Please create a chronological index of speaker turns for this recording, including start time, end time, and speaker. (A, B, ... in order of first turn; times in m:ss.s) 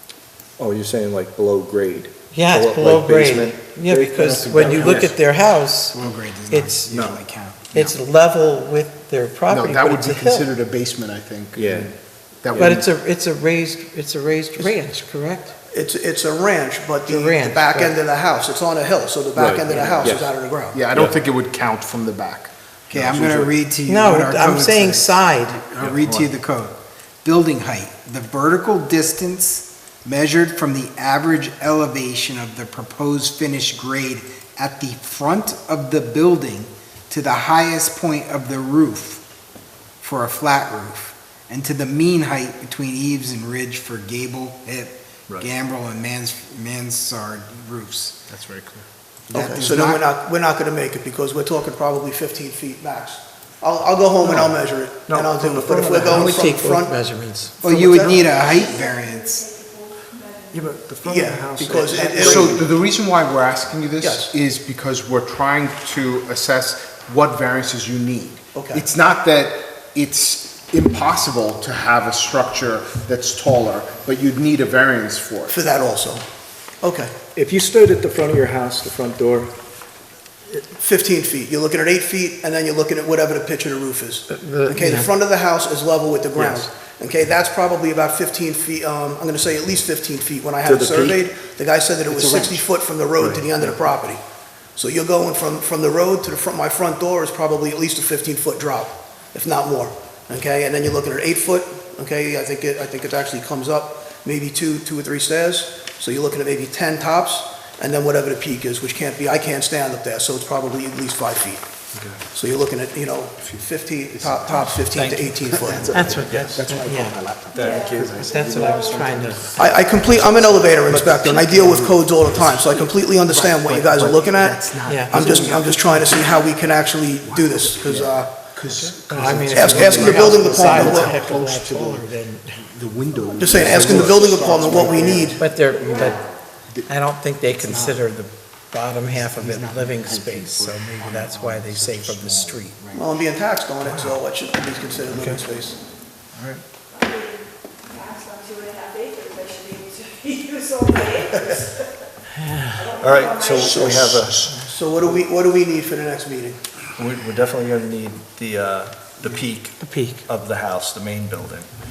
0:00.6-0:05.2 A
0:02.3-0:06.0 B
0:04.2-0:05.2 C
0:05.9-0:07.9 C
0:06.5-0:06.9 B
0:06.9-0:07.2 A
0:07.7-0:10.5 B
0:09.5-0:12.9 D
0:11.6-0:11.9 A
0:12.5-0:15.6 B
0:15.7-0:20.8 E
0:17.1-0:18.0 B
0:19.4-0:20.3 A
0:20.7-0:23.5 D
0:22.9-0:39.2 C
0:23.9-0:25.6 B
0:25.8-0:26.3 A
0:40.0-0:48.3 C
0:48.3-0:48.8 A
0:49.3-0:50.0 C
0:49.3-0:57.0 E
0:54.2-0:56.4 A
0:56.1-0:57.5 B
0:57.6-0:58.3 E
0:57.6-0:59.5 C
1:00.5-1:02.6 A
1:01.0-1:02.6 E
1:02.0-1:15.6 D
1:04.0-1:04.3 E
1:08.5-1:08.8 E
1:15.5-1:16.3 E
1:16.8-1:17.1 E
1:17.4-1:19.5 A
1:20.8-1:34.2 E
1:24.3-1:25.1 B
1:26.4-1:26.7 A
1:30.6-1:31.2 A
1:32.1-1:32.6 C
1:33.2-1:33.7 A
1:34.8-1:51.6 E
1:51.9-1:52.2 A
1:52.3-1:56.2 E
1:54.4-1:54.8 D
1:54.9-1:56.7 A
1:55.5-1:59.3 D
1:55.9-1:57.2 B
1:57.5-1:58.6 A
1:57.6-1:59.3 F
1:58.0-1:59.7 B
1:59.6-2:08.4 E
2:00.4-2:06.2 D
2:00.9-2:01.8 A
2:03.7-2:05.6 C
2:04.9-2:05.3 B
2:07.2-2:12.1 D
2:09.1-2:12.6 B
2:09.5-2:11.2 E
2:12.7-2:15.4 D
2:13.4-2:15.4 E
2:13.6-2:14.2 C
2:14.8-2:15.1 C
2:15.4-2:16.2 B
2:15.9-2:16.2 F
2:16.9-2:22.7 B
2:17.6-2:18.0 C
2:19.1-2:23.1 C
2:22.9-2:25.8 E
2:23.8-2:24.2 A
2:25.1-2:25.4 A
2:26.3-2:26.6 A
2:28.1-2:31.3 F
2:32.4-2:32.9 B
2:32.9-2:34.8 A
2:33.4-2:33.9 F
2:33.8-2:34.0 E
2:34.7-2:36.6 E
2:37.0-2:41.7 A
2:39.8-2:40.2 B